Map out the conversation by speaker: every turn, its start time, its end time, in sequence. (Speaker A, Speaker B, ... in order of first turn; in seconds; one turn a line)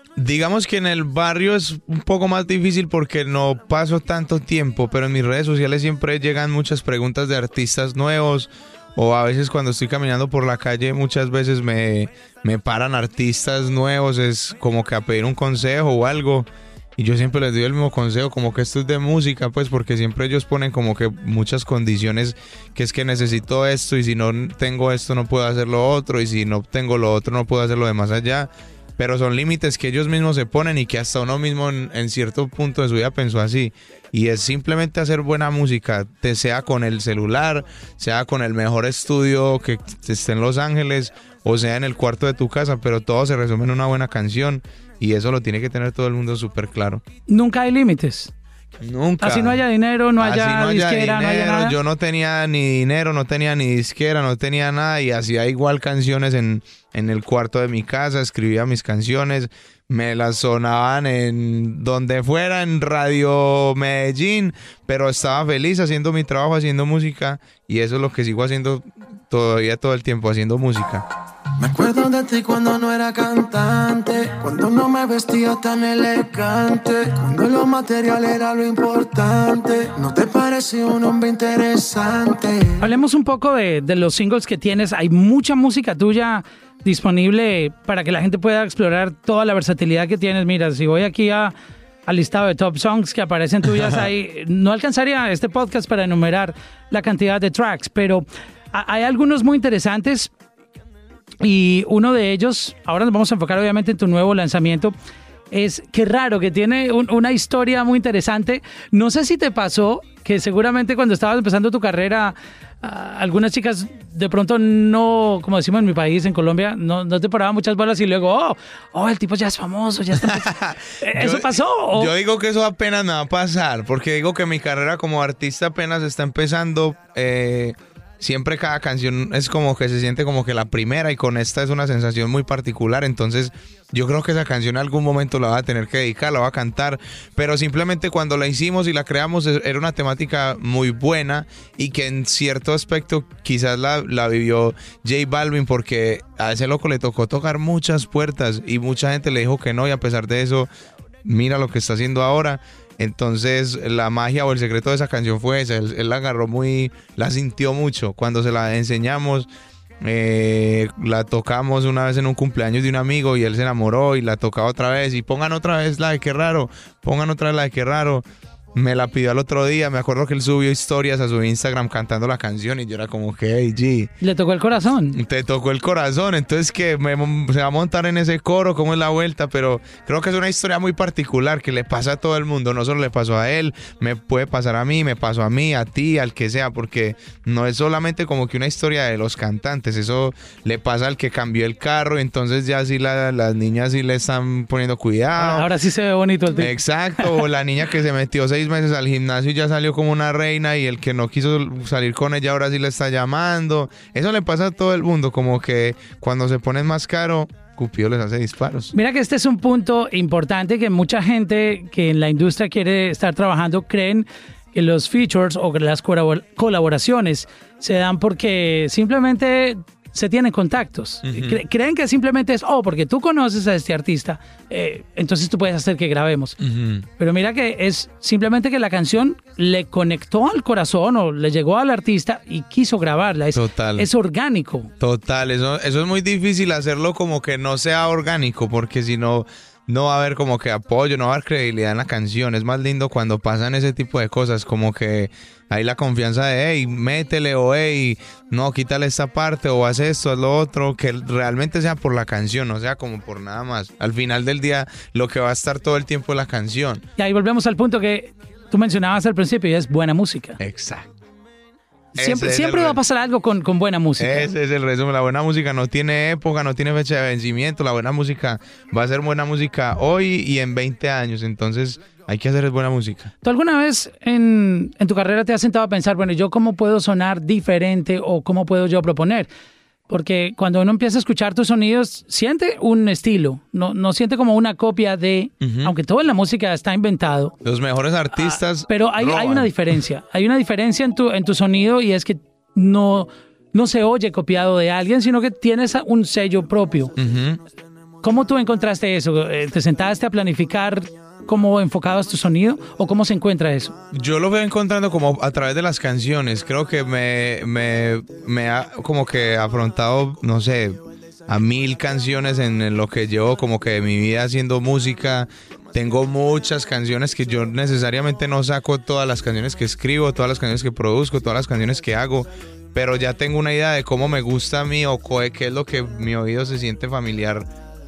Speaker A: 0.2-47.0
Speaker B: 47.3-48.3
Speaker A: 48.8-49.6
Speaker B: 49.2-51.8
Speaker A: 50.2-71.0
Speaker C: 71.6-82.8
Speaker B: 82.8-91.5
Speaker B: 92.1-100.3
Speaker B: 101.4-104.9
Speaker B: 105.5-120.5
Speaker A: 120.2-150.7
Speaker B: 121.0-122.1
Speaker A: 151.2-159.5
Speaker A: 160.0-174.1
Speaker B: 174.2-175.2
Speaker A: 175.1-195.7
Speaker B: 195.4-197.3
Speaker A: 196.6-208.9
Speaker B: 208.9-226.6
Speaker A: 221.2-221.6
Speaker A: 226.6-227.1
Speaker B: 227.2-234.9
Speaker A: 233.5-234.1
Speaker A: 235.0-257.0
Speaker B: 257.2-260.6
Speaker A: 260.6-261.1
Speaker B: 262.1-264.5
Speaker A: 262.2-263.0
Speaker A: 264.2-273.3
Speaker B: 273.4-279.5
Speaker B: 280.1-287.6
Speaker A: 285.6-285.9
Speaker A: 287.6-289.7
Speaker B: 288.4-297.1
Speaker A: 297.2-297.6
Speaker B: 298.2-303.9
Speaker A: 304.1-310.9
Speaker A: 311.5-327.7